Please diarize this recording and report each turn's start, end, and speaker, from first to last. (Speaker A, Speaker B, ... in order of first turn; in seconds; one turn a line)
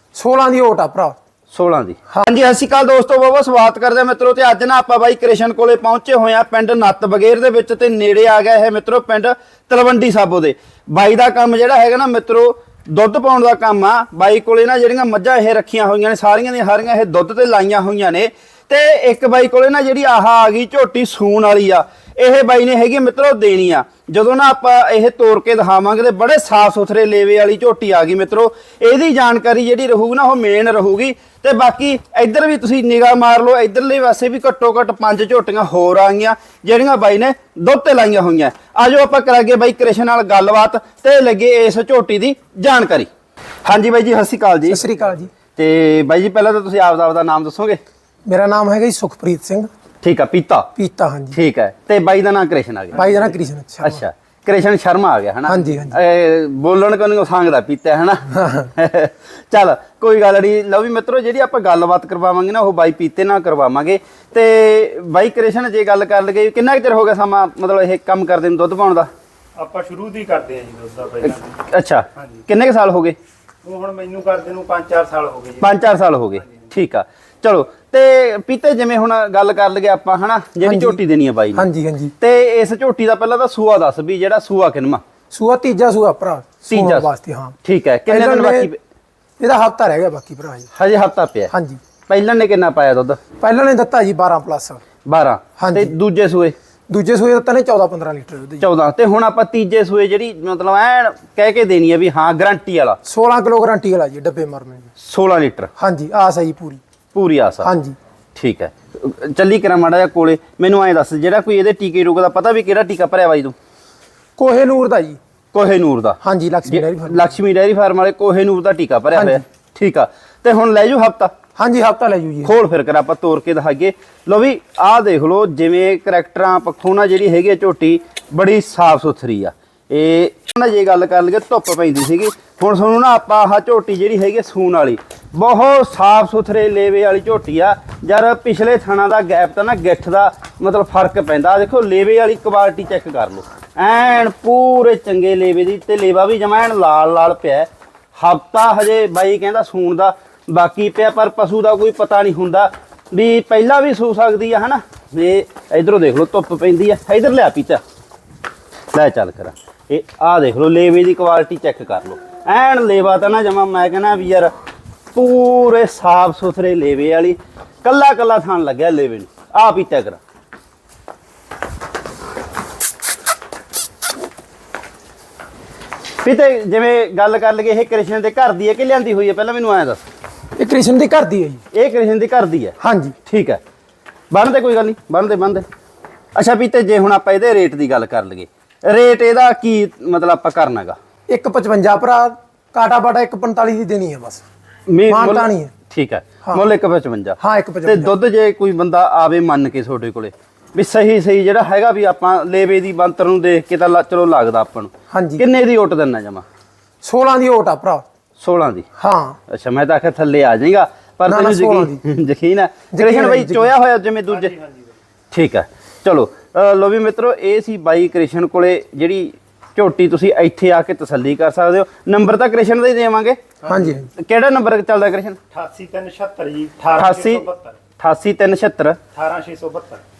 Speaker A: 0.1-1.2
Speaker B: 1.5-43.1
Speaker B: 43.6-44.9
Speaker A: 44.7-45.3
Speaker B: 45.5-47.8
Speaker A: 48.3-49.7
Speaker B: 50.0-50.7
Speaker A: 50.8-51.4
Speaker B: 51.3-69.1
Speaker A: 52.9-54.0
Speaker A: 55.5-56.0
Speaker A: 58.3-58.7
Speaker C: 69.6-71.6
Speaker B: 71.2-73.2
Speaker C: 72.2-72.4
Speaker C: 73.6-75.8
Speaker B: 75.6-81.7
Speaker A: 80.6-81.0
Speaker A: 81.5-82.1
Speaker B: 82.2-85.0
Speaker A: 85.3-87.6
Speaker B: 86.7-87.1
Speaker B: 87.6-88.8
Speaker A: 88.1-88.7
Speaker A: 89.4-90.7
Speaker B: 90.7-91.5
Speaker A: 91.5-91.8
Speaker B: 92.1-93.2
Speaker A: 93.4-94.8
Speaker B: 95.0-96.5
Speaker A: 95.6-96.0
Speaker A: 96.9-98.7
Speaker B: 98.6-103.0
Speaker A: 103.1-104.9
Speaker B: 105.0-105.7
Speaker A: 105.8-106.8
Speaker B: 107.1-107.7
Speaker A: 107.6-108.0
Speaker B: 108.3-113.5
Speaker A: 114.4-115.2
Speaker B: 115.5-121.3
Speaker A: 116.2-117.3
Speaker A: 119.1-119.4
Speaker A: 121.6-122.5
Speaker B: 122.4-157.8
Speaker B: 158.9-164.5
Speaker B: 165.1-170.2
Speaker B: 176.2-180.0
Speaker A: 180.6-181.6
Speaker B: 181.7-183.6
Speaker A: 182.8-183.2
Speaker B: 184.3-185.6
Speaker B: 186.3-190.9
Speaker A: 191.3-194.4
Speaker B: 194.9-206.4
Speaker A: 195.1-195.7
Speaker A: 197.4-198.1
Speaker A: 205.1-205.4
Speaker A: 207.0-208.0
Speaker B: 208.4-208.8
Speaker A: 209.0-209.4
Speaker B: 209.5-214.5
Speaker A: 211.3-212.0
Speaker A: 212.9-213.7
Speaker C: 214.3-214.9
Speaker B: 215.3-223.4
Speaker A: 223.6-224.1
Speaker B: 224.1-225.4
Speaker C: 225.5-227.8
Speaker B: 226.9-227.4
Speaker B: 228.0-229.0
Speaker C: 229.1-230.0